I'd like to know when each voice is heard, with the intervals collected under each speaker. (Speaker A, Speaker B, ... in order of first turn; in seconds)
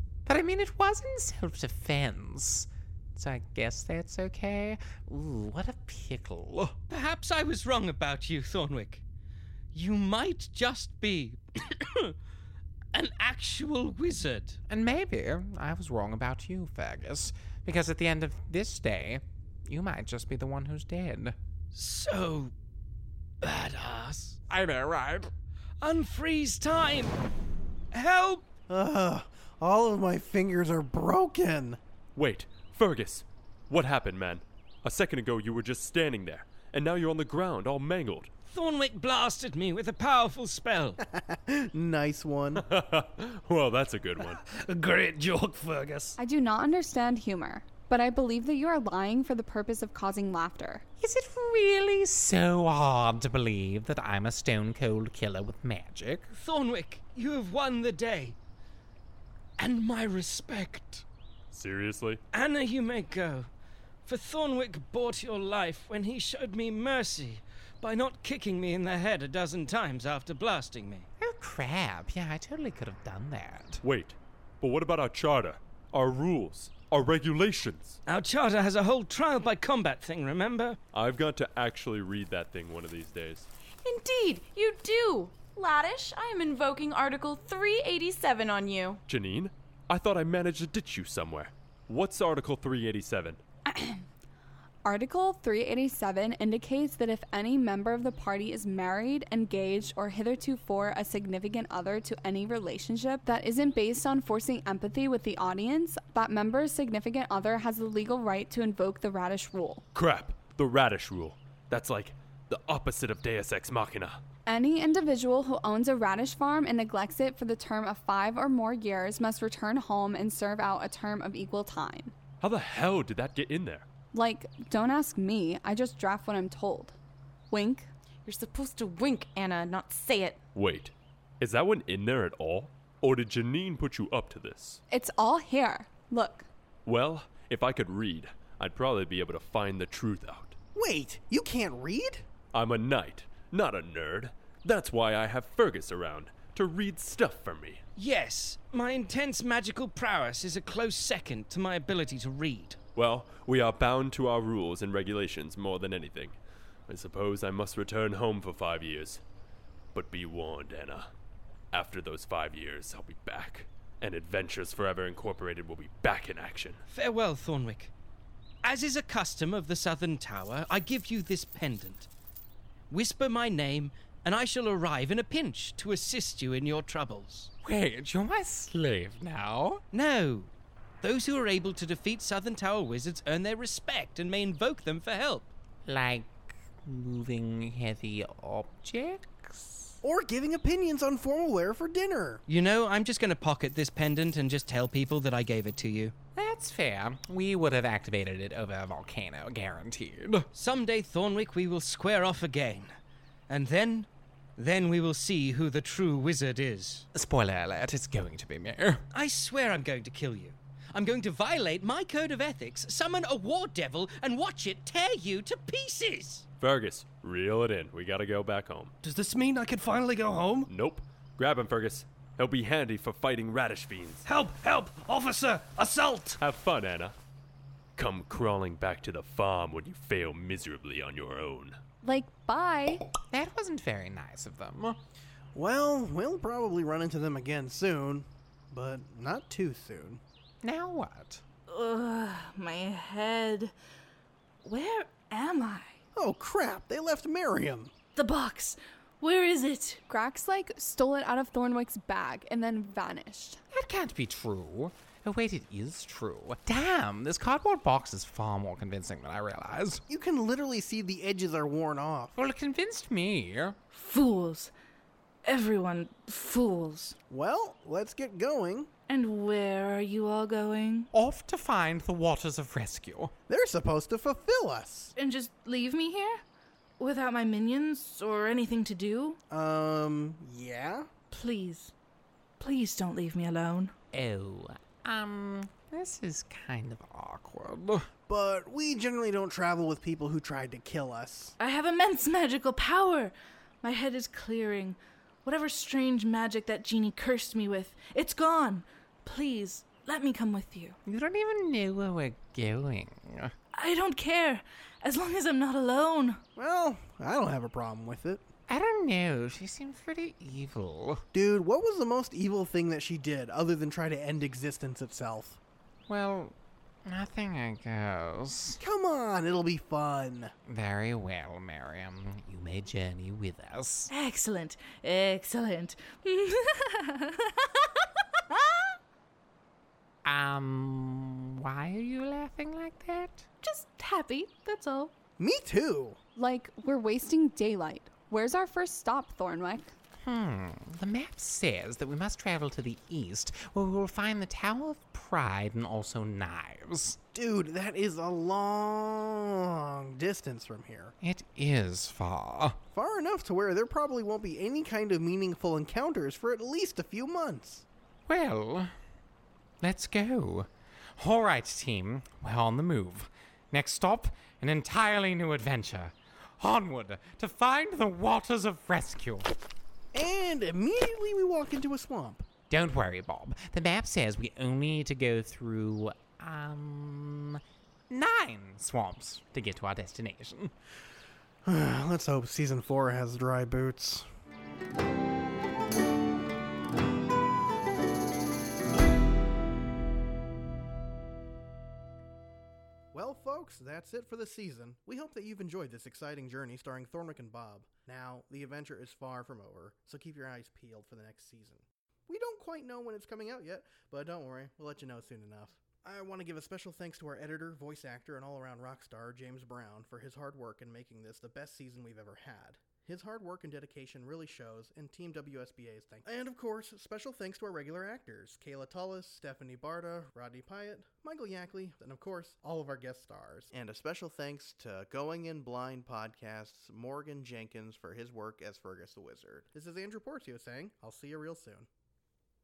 Speaker A: 0.2-6.8, 14.7-21.3, 24.5-25.3, 51.0-56.3, 71.2-73.8, 177.6-179.8, 185.8-190.0, 196.3-200.4, 207.1-209.0, 233.3-235.0, 240.6-241.4, 253.7-260.0, 262.4-263.8, 271.1-273.3, 284.1-288.1, 301.1-303.5, 308.7-311.2, 316.1-318.8, 320.7-324.1, 330.2-333.5, 340.2-347.2, 351.2-352.8, 358.3-358.9, 359.8-369.5, 372.7-380.7
Speaker B: 6.9-9.0, 9.7-12.1, 12.9-14.6, 21.7-22.5, 23.4-24.4, 25.8-27.1, 27.9-28.4, 38.5-41.0, 56.3-58.4, 59.6-61.0, 62.3-63.5, 64.0-71.1, 78.0-80.8, 147.9-152.8, 166.9-167.9, 168.6-172.1, 172.9-177.5, 179.9-180.5, 181.0-185.5, 192.5-196.1, 200.5-202.9, 203.5-207.1, 209.1-216.5
Speaker C: 28.7-31.8, 41.1-42.6, 140.7-142.2, 190.0-192.4, 235.5-240.2, 246.1-247.9, 260.1-262.4, 267.3-268.9, 273.5-275.1, 279.5-281.1, 288.3-291.6, 306.6-308.4, 311.3-315.6, 318.8-320.5, 335.4-336.2, 347.3-351.1, 352.9-357.9, 370.1-372.4, 381.6-384.3, 393.1-431.9
Speaker D: 32.1-38.3, 42.5-44.4, 61.5-62.2, 73.8-78.0, 80.9-83.5, 89.1-93.4, 109.9-114.2, 122.4-123.8, 130.5-134.8, 136.8-140.6, 142.5-147.8, 152.9-159.2, 159.9-161.1, 161.7-166.8, 216.6-218.9, 220.7-224.2, 226.4-227.2, 228.0-231.8
Speaker E: 44.5-46.1, 219.0-220.7, 224.2-226.4
Speaker F: 46.2-50.8, 93.7-94.0, 94.8-109.8, 114.5-122.1, 124.1-127.0, 127.5-127.9, 134.9-136.4, 232.0-233.0, 250.1-253.6, 336.4-339.9
Speaker G: 83.8-89.0, 128.2-130.4
Speaker H: 241.7-243.7, 244.6-246.0, 248.1-250.0, 263.9-264.7, 265.4-267.2, 269.1-271.1, 275.1-276.4, 277.0-279.4, 281.3-281.9, 282.6-283.9, 291.6-301.0, 303.7-306.4, 324.1-328.9, 333.6-335.1